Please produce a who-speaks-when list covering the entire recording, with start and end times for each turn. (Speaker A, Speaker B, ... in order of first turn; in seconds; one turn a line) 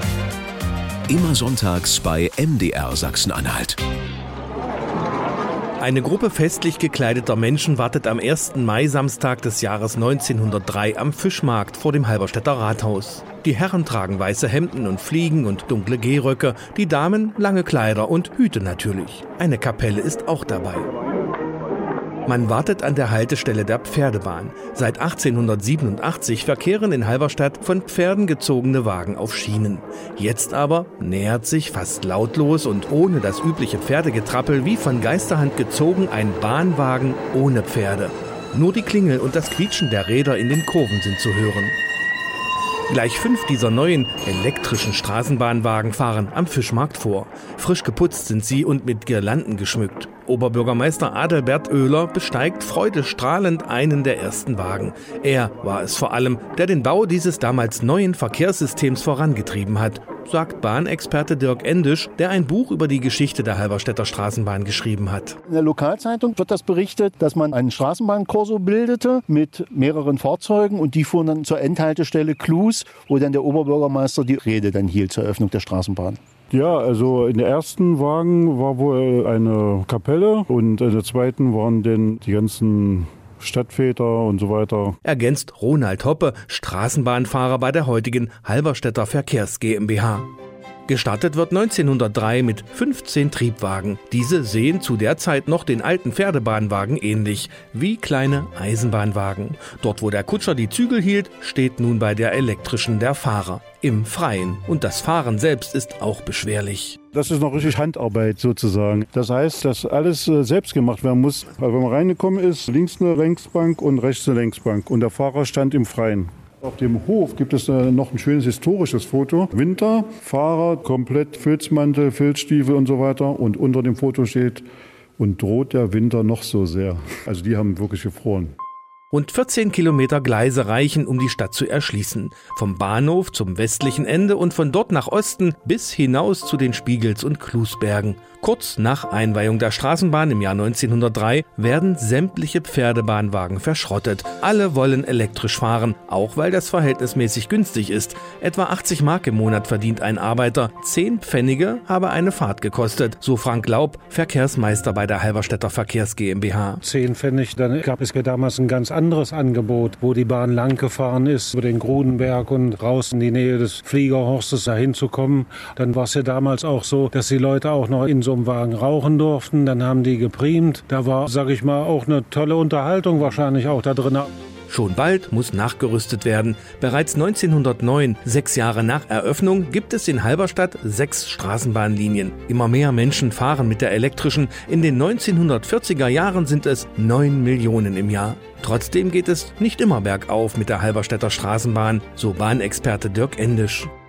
Speaker A: 1.1-3.8
Speaker B: 5.8-20.9
Speaker B: 22.2-41.8
Speaker B: 42.9-65.4
Speaker C: 65.5-76.2
Speaker D: 76.5-85.0
Speaker B: 85.0-90.3
Speaker B: 90.9-107.0
Speaker D: 107.1-124.6
Speaker D: 125.2-128.5
Speaker B: 129.1-156.8
Speaker E: 156.8-174.3
Speaker B: 174.7-193.9